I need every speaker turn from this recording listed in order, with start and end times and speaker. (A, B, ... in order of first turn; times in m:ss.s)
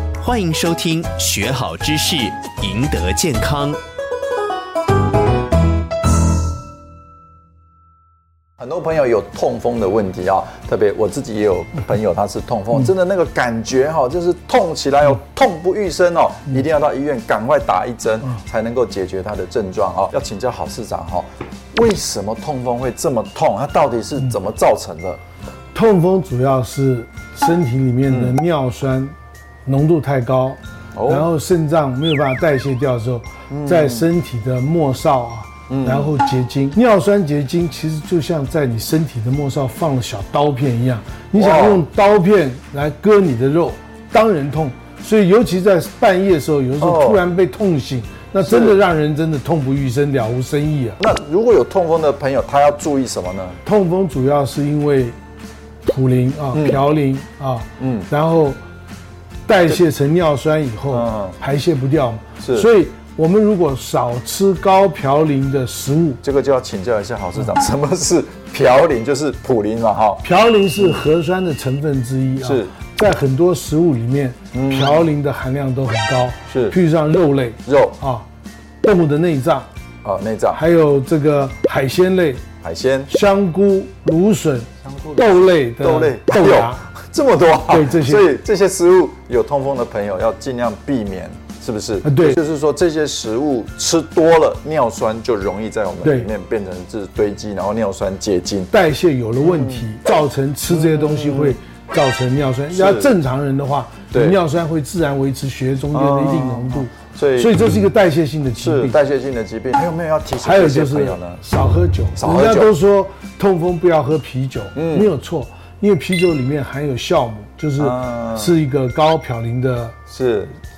0:00.2-0:03.8 A
0:08.6-0:25.2 B
0:25.7-0:29.1 C
0:28.1-0:28.4 B
0:29.6-0:51.0 C
0:30.9-0:31.3 B
0:33.5-0:34.1 B
0:35.7-0:36.1 B
0:41.3-0:41.8 B
0:46.8-0:47.2 B
0:48.4-0:48.8 B
0:51.0-0:53.6 B
0:53.6-0:55.2 C
0:55.8-0:58.6 C
0:56.5-0:56.8 B
0:57.8-0:58.1 B
0:59.4-1:06.2 C
1:00.9-1:01.4 B
1:02.4-1:02.7 B
1:06.2-1:10.2 B
1:10.2-1:18.2 C
1:12.4-1:12.7 B
1:14.5-1:15.1 B
1:16.5-1:16.8 B
1:17.6-1:18.0 B
1:18.8-1:19.7 C
1:20.0-1:20.6 B
1:20.5-1:22.4 C
1:22.6-1:23.1 B
1:23.1-1:26.8 C
1:24.8-1:38.7 B
1:27.7-1:28.3 C
1:32.0-1:32.4 C
1:36.0-1:36.3 C
1:38.7-1:49.0 C
1:39.4-1:39.9 B
1:40.7-1:41.6 B
1:42.7-1:43.1 B
1:44.1-1:44.4 B
1:45.9-1:47.6 B
1:48.6-1:51.4 B
1:50.4-2:00.0 C
1:52.2-1:52.7 B
1:54.7-1:55.1 B
1:57.8-1:58.6 B
2:00.1-2:00.6 B